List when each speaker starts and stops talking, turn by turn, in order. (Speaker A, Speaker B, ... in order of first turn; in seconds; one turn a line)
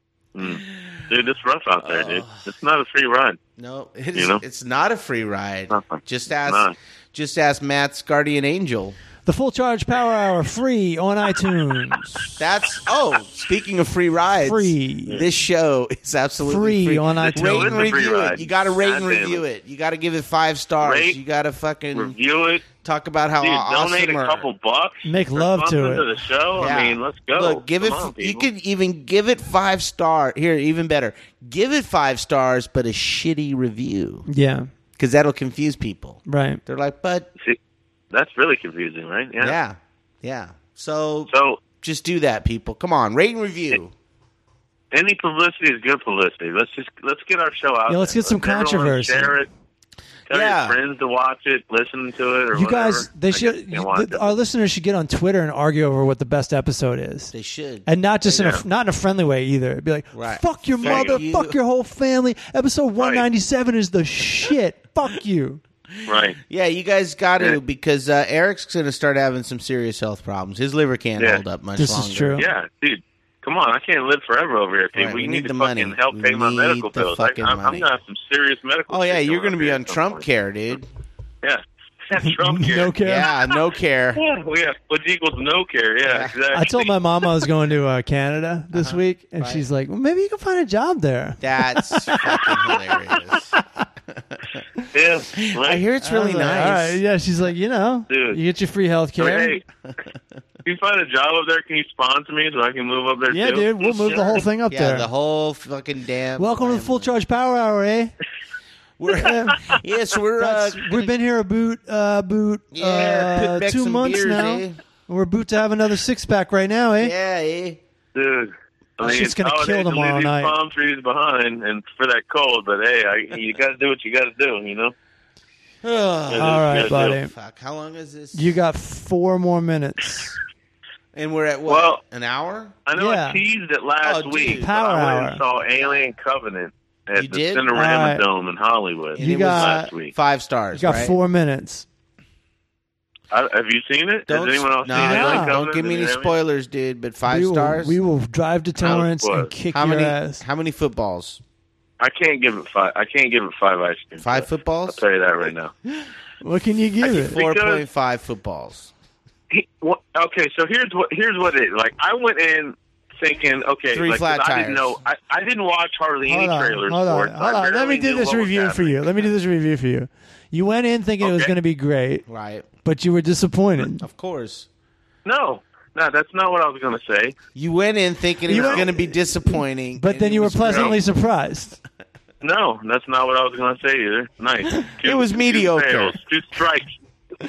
Speaker A: 0.3-3.4
Speaker B: 1.8-2.4
Speaker B: 3.6-8.9
Speaker A: 4.1-4.4
Speaker A: 5.7-6.7
Speaker C: 9.2-12.2
Speaker B: 12.3-22.1
Speaker C: 14.4-15.2
Speaker C: 16.4-18.0
Speaker A: 17.2-19.4
Speaker A: 20.8-21.2
Speaker A: 21.9-22.6
Speaker B: 22.7-24.5
Speaker A: 23.4-28.5
Speaker C: 25.0-26.1
Speaker B: 26.6-34.2
Speaker C: 34.3-34.7
Speaker B: 35.0-37.3
Speaker C: 36.2-36.6
Speaker A: 38.1-39.5
Speaker B: 39.4-43.9
Speaker A: 41.3-41.6
Speaker A: 44.9-49.5
Speaker C: 47.9-49.4
Speaker A: 50.3-54.4
Speaker B: 50.3-50.8
Speaker C: 52.5-57.3
Speaker B: 57.3-57.9
Speaker C: 57.8-65.6
Speaker A: 58.2-58.6
Speaker B: 60.1-61.6
Speaker A: 60.8-61.2
Speaker A: 63.0-63.3
Speaker B: 66.0-72.4
Speaker A: 66.0-66.4
Speaker A: 71.2-71.4
Speaker C: 71.8-72.5
Speaker A: 72.3-80.2
Speaker B: 74.9-77.9
Speaker B: 78.9-80.9
Speaker A: 81.4-82.9
Speaker C: 82.2-83.3
Speaker B: 83.0-84.2
Speaker A: 84.1-86.9
Speaker B: 86.1-86.3
Speaker C: 86.5-92.5
Speaker B: 88.7-89.6
Speaker B: 91.4-93.5
Speaker B: 94.1-94.4
Speaker A: 94.9-95.8
Speaker B: 95.4-97.0
Speaker C: 96.0-99.6
Speaker A: 98.1-98.4
Speaker A: 99.2-99.6
Speaker A: 100.6-104.4
Speaker C: 103.3-105.1
Speaker B: 104.7-107.1
Speaker C: 106.4-108.1
Speaker B: 109.0-111.1
Speaker C: 109.1-109.7
Speaker C: 110.4-117.1
Speaker B: 112.7-114.8
Speaker B: 117.0-117.8
Speaker A: 118.1-124.9
Speaker C: 119.0-120.5
Speaker B: 125.8-128.5
Speaker A: 126.3-127.2
Speaker C: 126.3-127.3
Speaker C: 128.3-130.3
Speaker B: 131.1-132.8
Speaker A: 131.7-132.0
Speaker A: 132.9-140.1
Speaker C: 133.0-133.4
Speaker B: 134.0-134.7
Speaker C: 134.6-135.4
Speaker B: 137.1-137.7
Speaker C: 137.7-138.2
Speaker B: 139.1-141.1
Speaker C: 139.2-139.9
Speaker C: 140.7-141.8
Speaker A: 143.3-146.3
Speaker B: 144.3-148.0
Speaker C: 144.9-145.5
Speaker C: 147.2-150.4
Speaker A: 148.8-149.5
Speaker B: 149.7-151.4
Speaker A: 152.0-155.7
Speaker B: 154.2-155.0
Speaker C: 156.4-157.4
Speaker A: 157.0-157.8
Speaker B: 157.2-158.9
Speaker A: 159.5-169.3
Speaker B: 163.9-165.0
Speaker C: 166.3-172.2
Speaker A: 171.2-171.5
Speaker B: 172.3-172.7
Speaker C: 172.8-174.0
Speaker B: 173.8-174.7
Speaker A: 175.2-177.3
Speaker B: 177.5-181.0
Speaker C: 178.5-181.8
Speaker A: 178.5-178.8
Speaker A: 180.6-180.9
Speaker A: 182.4-186.9
Speaker B: 185.0-186.2